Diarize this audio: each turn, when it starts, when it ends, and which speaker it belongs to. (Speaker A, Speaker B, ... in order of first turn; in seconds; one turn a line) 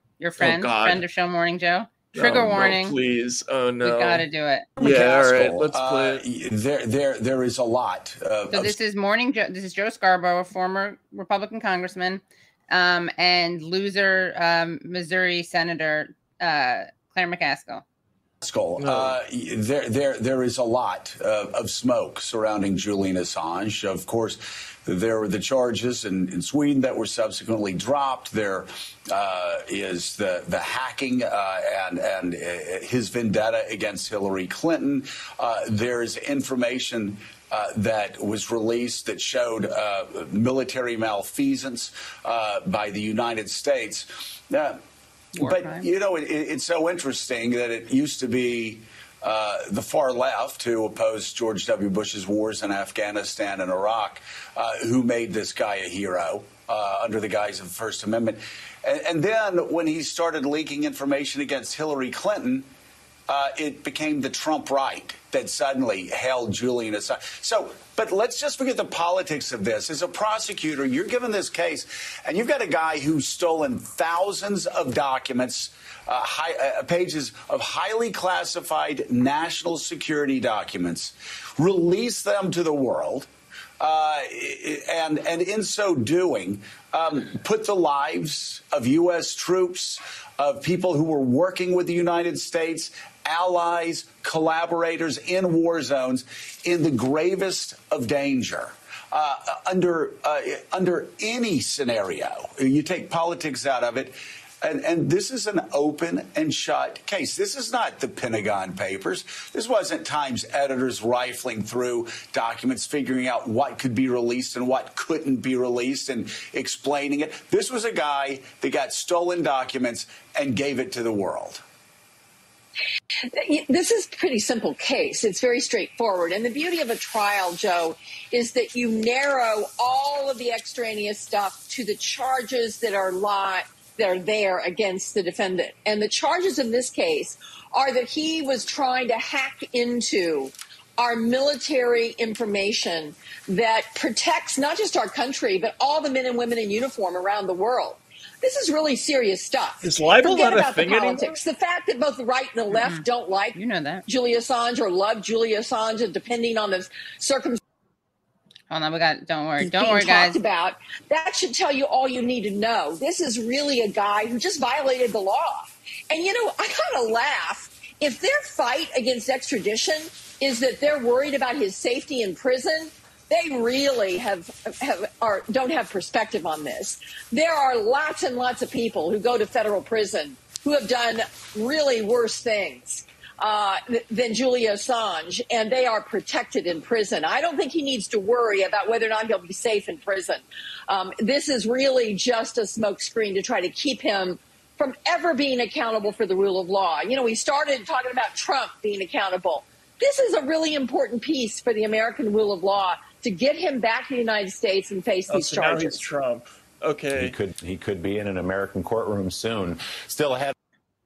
Speaker A: 0.2-3.0
Speaker B: 0.4-1.0
Speaker B: 2.1-4.2
Speaker A: 3.8-4.7
Speaker B: 4.8-6.2
Speaker C: 4.8-8.8
Speaker A: 8.5-17.8
Speaker C: 18.4-44.8
Speaker B: 18.8-19.2
Speaker A: 45.3-45.8
Speaker C: 45.4-62.7
Speaker C: 63.3-121.6
Speaker D: 123.3-157.6
Speaker B: 149.8-151.3
Speaker A: 152.7-154.0
Speaker A: 158.7-160.4
Speaker D: 159.6-206.0
Speaker B: 205.3-207.3
Speaker E: 207.1-210.5